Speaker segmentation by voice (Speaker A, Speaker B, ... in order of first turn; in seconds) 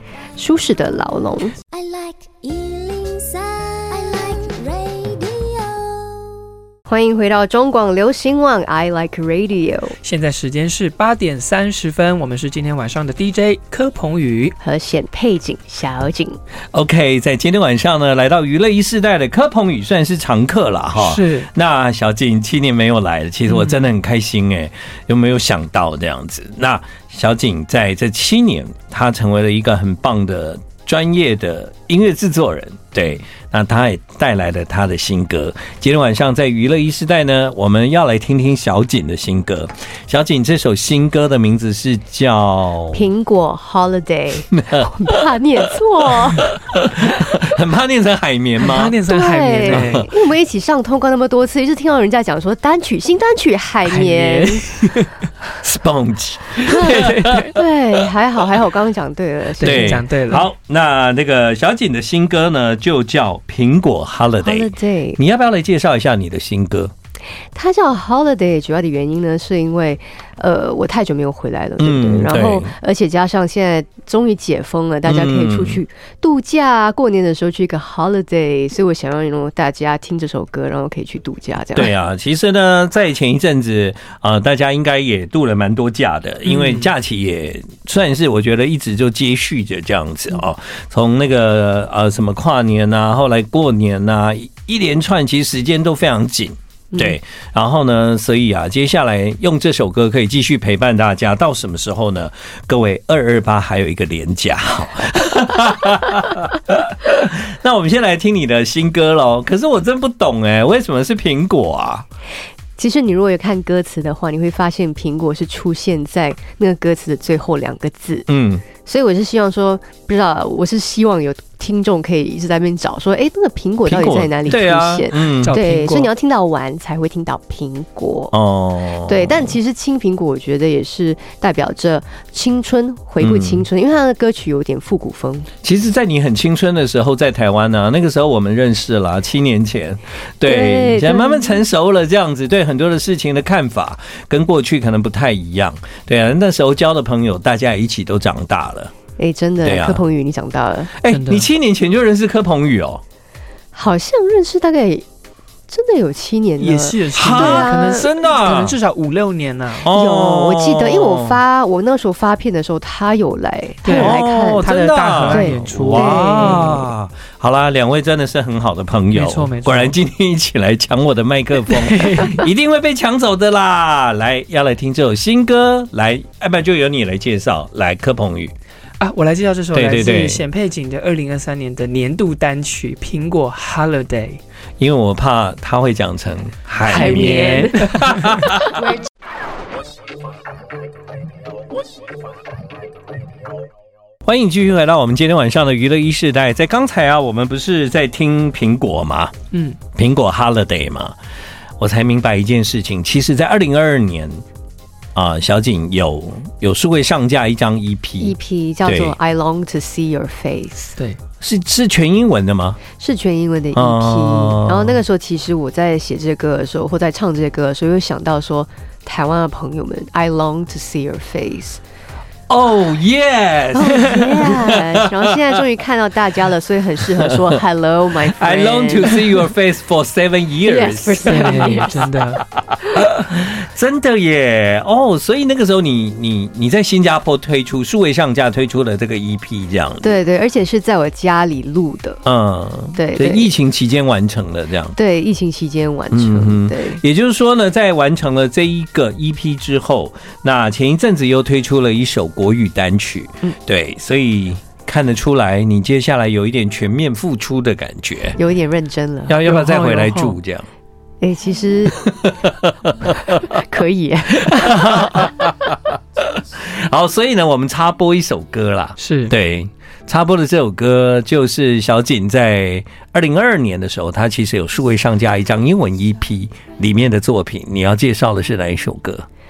Speaker A: 0.4-1.6, 6.9-9.9, 14.6-16.4, 42.9-46.5, 49.1-54.6, 56.6-60.0, 64.4-65.2, 67.5-81.9, 112.8-118.3, 118.8-128.3, 129.1-135.5, 140.4-141.6, 149.2-150.9, 153.7-155.0, 155.7-158.1, 159.9-164.7, 165.3-166.7, 186.9-187.9, 208.2-211.0, 213.0-221.8, 223.7-229.2, 230.6-232.1, 240.0-242.2, 242.9-243.5, 244.9-247.0, 258.4-259.4, 261.2-262.0, 263.5-265.1
Speaker B: 1.7-6.4
Speaker C: 10.0-14.6, 20.9-21.5, 23.5-23.9, 48.6-50.1, 53.9-55.1, 56.7-57.5, 59.6-60.5, 86.5-86.9, 125.4-126.1, 151.1-151.5, 156.6-159.9, 163.8-166.8, 169.1-169.9, 171.6-172.4, 179.0-184.4, 186.9-188.5, 199.5-199.8, 231.2-232.4, 259.4-260.4, 269.0-269.3
Speaker D: 16.7-43.0, 44.5-45.2, 46.2-49.0, 49.6-50.0, 55.5-57.5, 59.6-66.9, 71.8-72.7, 75.1-75.8, 81.8-112.0, 118.3-118.6, 123.8-125.5, 128.3-129.5, 133.2-133.6, 135.6-148.9, 149.6-150.0, 150.9-153.0, 157.1-158.8, 159.8-161.4, 163.9-178.5, 179.7-180.4, 184.8-188.7, 194.2-199.3, 199.9-201.1, 201.8-204.4, 205.1-208.3, 208.8-209.1, 211.4-212.8, 213.7-215.0, 222.5-225.3, 228.3-231.9, 232.7-240.2, 242.2-244.9, 246.1-258.4, 259.3-260.6, 262.0-263.4, 264.4-265.7, 266.3-279.2